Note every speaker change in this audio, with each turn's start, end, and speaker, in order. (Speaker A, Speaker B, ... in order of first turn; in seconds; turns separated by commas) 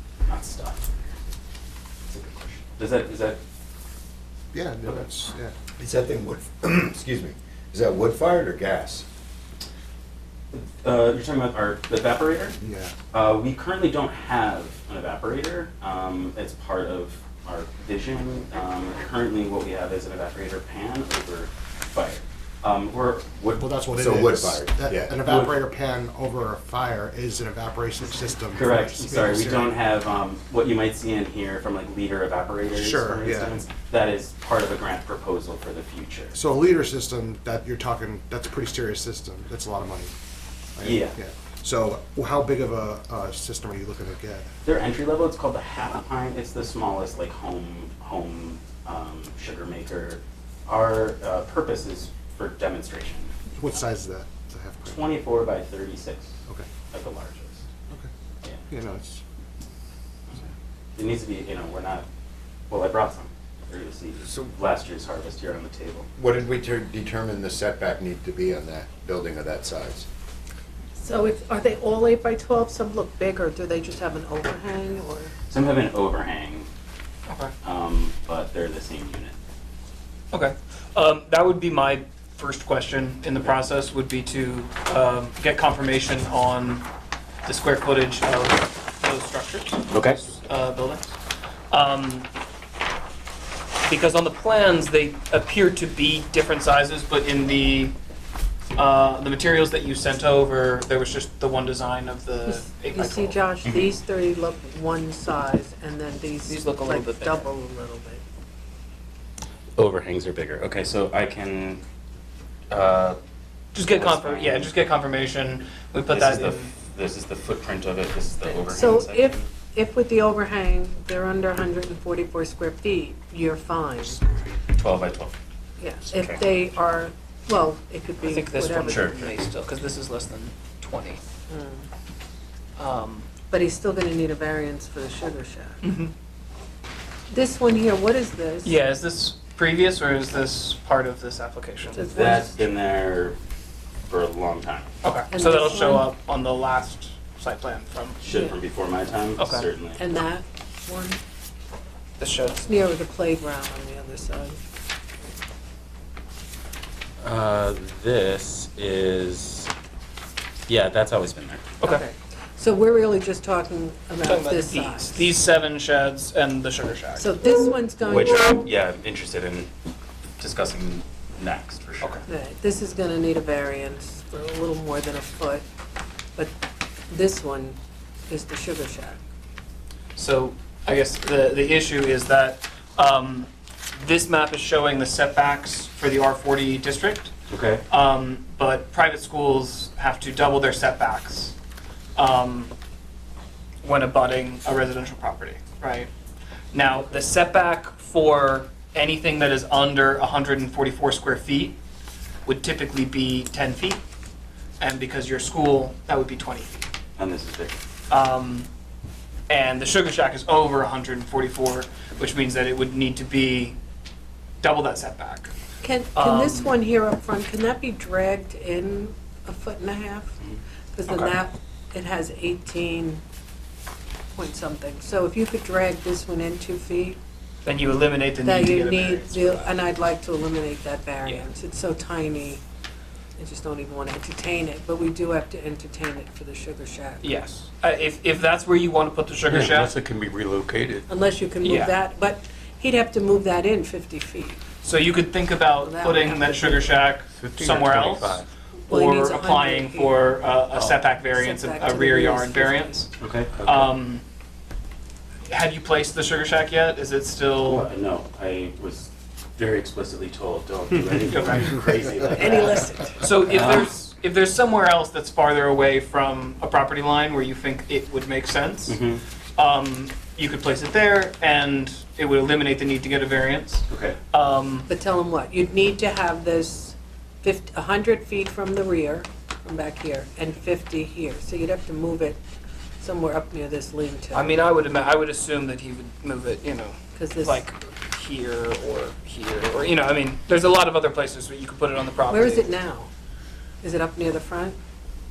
Speaker A: 0.2-0.9, Speaker A: 2.1-3.4, Speaker B: 4.5-5.5, Speaker C: 5.7-9.0, Speaker A: 10.5-12.6, Speaker B: 12.6-12.9, Speaker A: 13.1-23.6, Speaker B: 23.6-29.7, Speaker C: 23.9-25.1, Speaker A: 25.2-25.5, Speaker A: 28.5-36.4, Speaker B: 32.7-33.6, Speaker B: 36.3-40.1, Speaker B: 40.8-44.5, Speaker A: 40.8-41.2, Speaker A: 44.6-53.3, Speaker B: 53.5-55.0, Speaker A: 54.8-56.3, Speaker A: 56.9-57.6, Speaker B: 58.7-59.2, Speaker A: 61.0-62.0, Speaker A: 62.7-66.1, Speaker C: 66.2-70.0, Speaker D: 71.0-75.3, Speaker A: 75.5-76.7, Speaker E: 77.3-77.5, Speaker A: 77.6-79.3, Speaker E: 80.3-86.9, Speaker E: 87.4-91.2, Speaker A: 89.9-90.2, Speaker E: 91.7-92.3, Speaker E: 93.8-97.9, Speaker E: 98.8-103.4, Speaker D: 102.5-108.2, Speaker A: 103.7-103.9, Speaker E: 106.5-107.5, Speaker A: 109.8-111.8, Speaker A: 112.7-113.2, Speaker E: 113.7-116.7, Speaker A: 113.8-114.7, Speaker A: 116.1-119.5, Speaker D: 118.5-124.2, Speaker A: 124.7-125.3, Speaker D: 125.8-129.0, Speaker A: 126.0-126.5, Speaker E: 128.2-131.2, Speaker A: 128.9-129.3, Speaker D: 131.5-131.8, Speaker E: 132.8-133.3, Speaker D: 133.5-135.8, Speaker E: 135.8-136.1, Speaker D: 137.3-138.8, Speaker E: 138.6-142.0, Speaker D: 141.9-142.5, Speaker A: 142.0-143.4, Speaker A: 144.1-144.9, Speaker E: 145.0-148.2, Speaker D: 145.3-146.1, Speaker A: 148.2-150.0, Speaker D: 148.3-148.6, Speaker E: 149.4-149.7, Speaker D: 150.0-151.2, Speaker E: 152.2-152.7, Speaker D: 152.6-154.6, Speaker A: 157.2-159.7, Speaker A: 160.7-161.7, Speaker D: 161.8-165.3, Speaker E: 164.2-167.3, Speaker D: 167.2-168.6, Speaker A: 168.0-169.7, Speaker A: 170.4-172.2, Speaker D: 172.3-175.6, Speaker D: 177.1-177.8, Speaker D: 178.3-179.2, Speaker E: 180.2-187.3, Speaker A: 187.5-187.8, Speaker E: 187.9-191.5, Speaker E: 192.2-192.7, Speaker E: 193.8-196.1, Speaker E: 196.7-201.8, Speaker E: 202.4-204.0, Speaker E: 204.8-206.8, Speaker A: 207.2-207.8, Speaker E: 208.1-208.7, Speaker E: 209.5-213.8, Speaker E: 214.6-215.5, Speaker D: 215.8-220.4, Speaker E: 216.1-216.7, Speaker D: 220.9-223.2, Speaker D: 224.3-227.2, Speaker E: 227.6-229.7, Speaker D: 228.4-232.6, Speaker D: 233.4-237.2, Speaker E: 237.2-239.9, Speaker F: 239.5-241.0, Speaker D: 241.1-244.6, Speaker E: 241.6-241.9, Speaker E: 244.8-254.2, Speaker D: 245.8-247.1, Speaker F: 247.3-248.4, Speaker D: 248.9-253.0, Speaker A: 253.2-253.8, Speaker E: 255.5-257.9, Speaker A: 257.6-263.9, Speaker E: 261.3-261.9, Speaker D: 262.3-263.2, Speaker E: 263.2-269.0, Speaker A: 268.9-269.2, Speaker E: 269.6-274.9, Speaker A: 273.9-274.2, Speaker D: 274.9-282.4, Speaker D: 283.0-284.5, Speaker E: 284.3-292.7, Speaker D: 287.1-287.6, Speaker D: 292.3-293.1, Speaker D: 293.8-294.8